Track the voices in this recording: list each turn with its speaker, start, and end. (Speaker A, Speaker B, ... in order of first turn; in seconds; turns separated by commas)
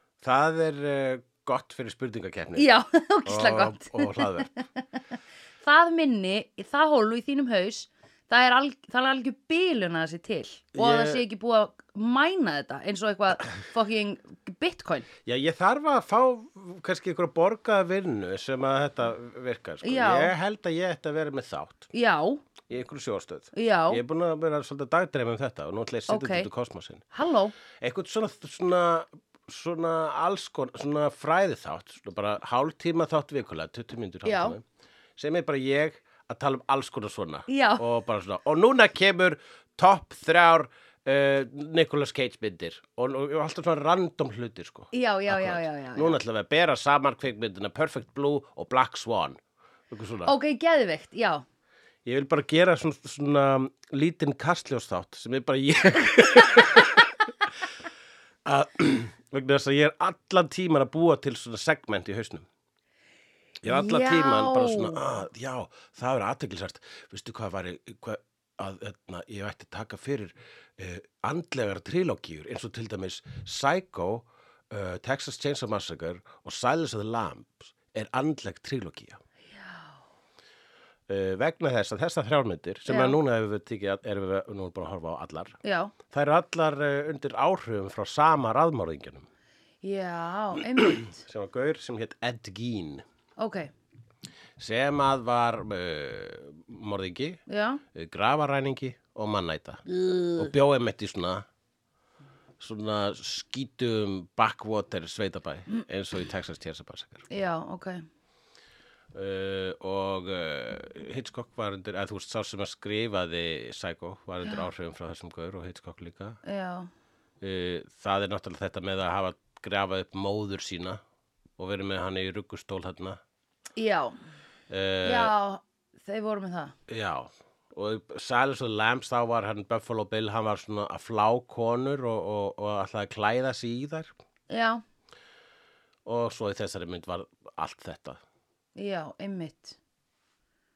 Speaker A: 0.2-2.7, Speaker B: 2.5-4.6, Speaker A: 3.2-4.5, Speaker B: 5.6-15.1, Speaker A: 10.7-11.2, Speaker A: 15.2-21.9, Speaker B: 19.8-20.3, Speaker B: 21.9-22.4, Speaker A: 22.7-27.0, Speaker B: 23.5-24.0, Speaker B: 26.1-26.5, Speaker B: 27.1-27.5, Speaker A: 27.8-34.6, Speaker B: 34.2-34.6, Speaker A: 35.2-50.3, Speaker B: 37.5-37.8, Speaker B: 44.9-46.2, Speaker B: 50.2-51.4, Speaker A: 52.0-57.3, Speaker A: 58.4-62.5, Speaker A: 63.6-79.2, Speaker B: 63.7-65.1, Speaker A: 81.1-85.6, Speaker B: 82.9-83.2, Speaker B: 85.6-85.9, Speaker A: 86.1-89.3, Speaker B: 89.8-91.2, Speaker A: 90.8-93.0, Speaker B: 93.4-93.7, Speaker A: 94.6-97.4, Speaker B: 97.5-97.8, Speaker A: 97.9-99.8, Speaker B: 99.9-100.5, Speaker A: 100.3-101.4, Speaker A: 102.6-107.2, Speaker B: 107.3-108.0, Speaker A: 109.1-116.4, Speaker B: 116.4-116.9, Speaker A: 117.4-121.0, Speaker A: 121.6-123.2, Speaker B: 123.8-124.2, Speaker A: 124.7-125.3, Speaker B: 125.0-126.7, Speaker A: 126.9-134.1, Speaker B: 134.5-134.8, Speaker A: 136.1-138.2, Speaker B: 138.8-139.8